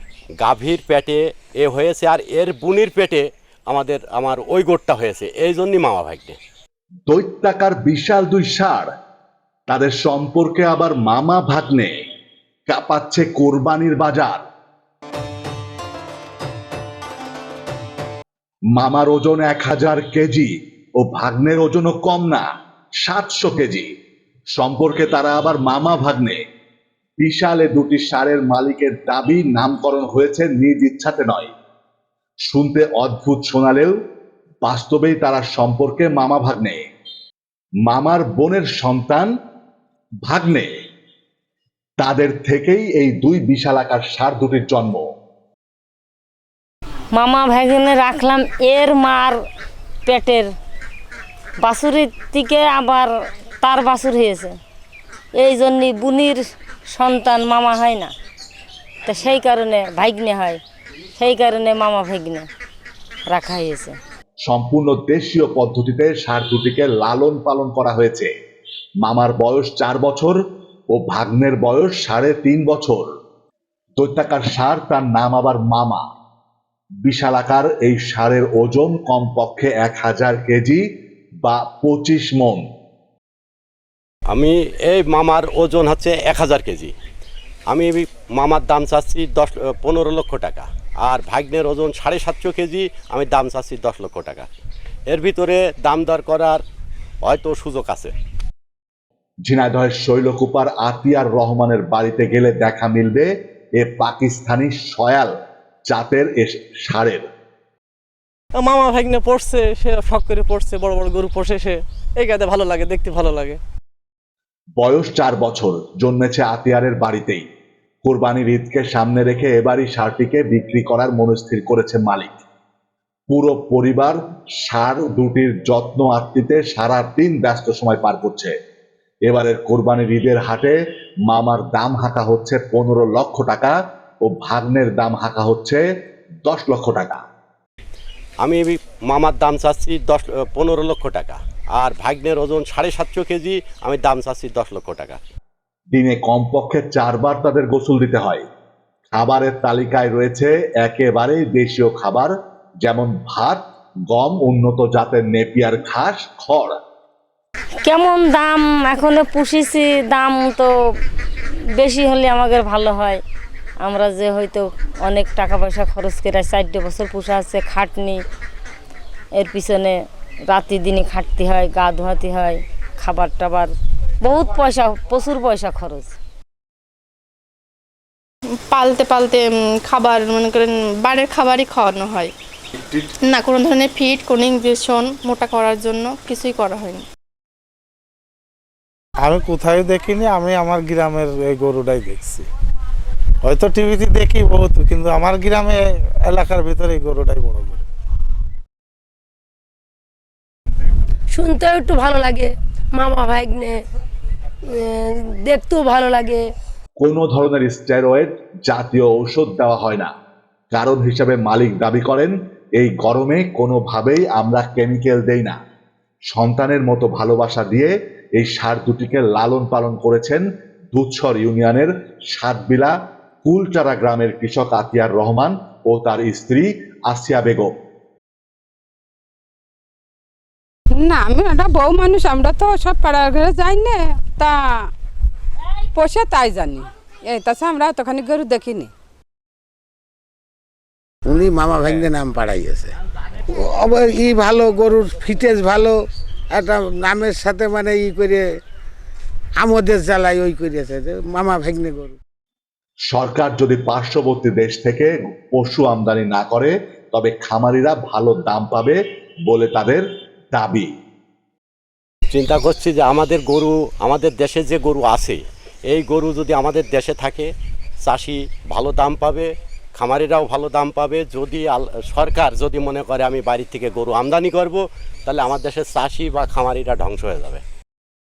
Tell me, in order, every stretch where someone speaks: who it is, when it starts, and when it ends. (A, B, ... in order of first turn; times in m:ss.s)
0:00.4-0:06.4 A
0:07.1-0:08.9 B
0:09.7-0:11.9 B
0:12.7-0:14.4 B
0:18.7-0:22.4 B
0:23.0-0:23.9 B
0:24.5-0:26.4 B
0:27.2-0:31.5 B
0:32.5-0:33.9 B
0:34.6-0:36.8 B
0:37.9-0:39.3 B
0:40.2-0:40.7 B
0:42.0-0:45.1 B
0:47.1-0:49.4 C
0:50.0-0:50.5 C
0:51.6-0:53.1 C
0:53.6-0:54.6 C
0:55.4-0:58.1 C
0:59.0-1:00.6 C
1:01.2-1:02.5 C
1:03.3-1:04.0 C
1:04.4-1:08.3 B
1:09.0-1:10.4 B
1:10.9-1:13.1 B
1:14.0-1:16.0 B
1:17.0-1:20.8 B
1:21.4-1:22.6 B
1:24.3-1:26.9 A
1:27.7-1:34.5 A
1:35.1-1:36.6 A
1:37.2-1:38.1 A
1:39.5-1:45.3 B
1:45.9-1:47.2 B
1:48.5-1:53.6 D
1:54.8-1:57.4 B
1:58.0-2:02.4 B
2:03.3-2:08.5 B
2:09.3-2:15.8 B
2:16.4-2:17.2 B
2:18.4-2:25.2 A
2:25.9-2:28.4 B
2:29.1-2:36.8 B
2:37.8-2:40.7 C
2:41.8-2:43.2 C
2:43.8-2:48.2 C
2:49.4-2:50.0 C
2:50.5-2:56.1 C
2:58.8-3:02.3 E
3:03.3-3:07.0 E
3:09.3-3:12.4 F
3:13.5-3:17.8 F
3:21.3-3:23.8 G
3:24.7-3:26.4 G
3:27.0-3:30.1 B
3:30.7-3:35.6 B
3:36.3-3:47.7 B
3:50.9-3:54.9 H
3:55.9-3:58.9 H
4:01.2-4:02.9 I
4:03.5-4:06.0 I
4:06.5-4:08.4 I
4:09.6-4:12.2 I
4:13.1-4:20.9 B
4:22.3-4:27.5 A
4:28.0-4:37.6 A